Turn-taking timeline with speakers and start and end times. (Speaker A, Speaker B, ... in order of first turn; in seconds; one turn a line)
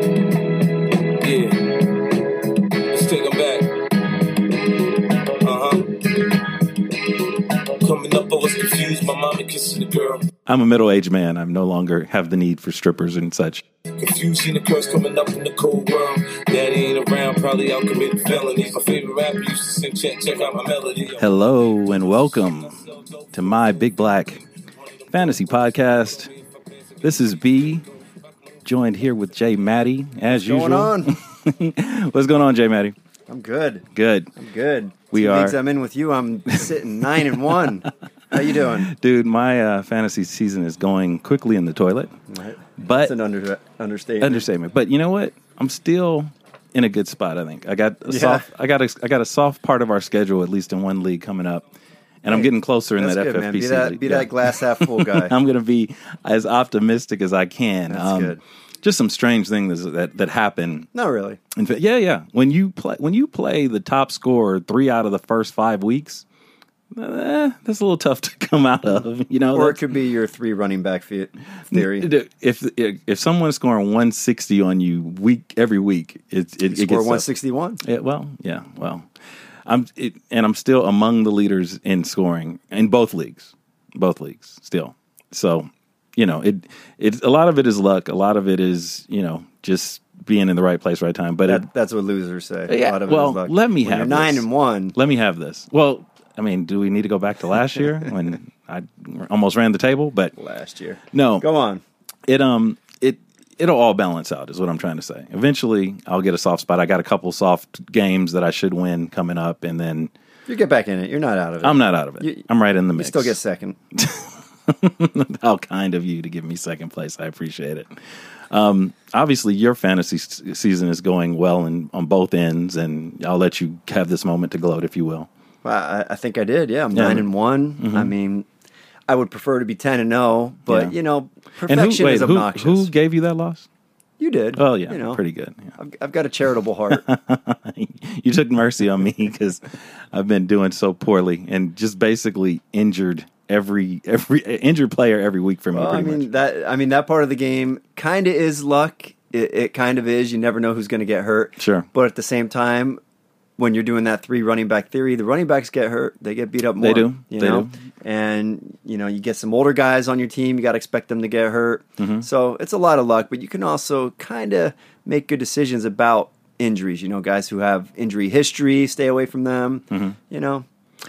Speaker A: 1.1-4.7
Speaker A: 5.3-7.2
Speaker A: 7.7-10.3
Speaker B: 10.5-13.6
Speaker A: 14.0-21.4
Speaker B: 21.2-22.8
Speaker A: 22.0-23.9
Speaker B: 23.3-24.4
Speaker A: 24.8-28.5
Speaker B: 25.1-26.3
Speaker B: 27.0-27.9
Speaker B: 28.6-33.0
Speaker C: 30.3-31.2
Speaker C: 33.3-33.8
Speaker B: 33.9-34.3
Speaker C: 34.4-38.9
Speaker B: 35.1-35.5
Speaker B: 37.2-37.5
Speaker B: 38.8-42.1
Speaker C: 42.3-44.4
Speaker B: 42.8-43.1
Speaker B: 44.2-51.6
Speaker C: 48.1-48.5
Speaker B: 52.2-60.9
Speaker C: 52.3-55.3
Speaker C: 57.9-58.4
Speaker C: 60.9-61.4
Speaker B: 61.5-66.2
Speaker B: 66.9-69.8
Speaker C: 69.5-72.1
Speaker B: 71.7-77.2
Speaker C: 76.7-77.8
Speaker B: 77.8-79.1
Speaker B: 79.7-91.6
Speaker C: 91.4-95.0
Speaker B: 92.7-100.3
Speaker C: 100.4-101.8
Speaker B: 101.1-101.4
Speaker B: 102.3-110.1
Speaker C: 110.5-113.8
Speaker B: 111.6-113.4
Speaker B: 113.9-117.9
Speaker B: 118.5-125.3
Speaker C: 125.6-128.5
Speaker B: 126.9-127.2
Speaker B: 127.8-128.1
Speaker C: 129.1-132.9
Speaker B: 130.7-130.9
Speaker B: 131.7-133.7
Speaker C: 134.2-135.2
Speaker B: 134.6-135.8
Speaker C: 135.8-137.1
Speaker B: 136.9-146.3
Speaker C: 145.7-153.0
Speaker B: 151.6-151.9
Speaker C: 153.6-170.7
Speaker B: 156.8-157.7
Speaker B: 162.0-162.2
Speaker B: 169.9-170.2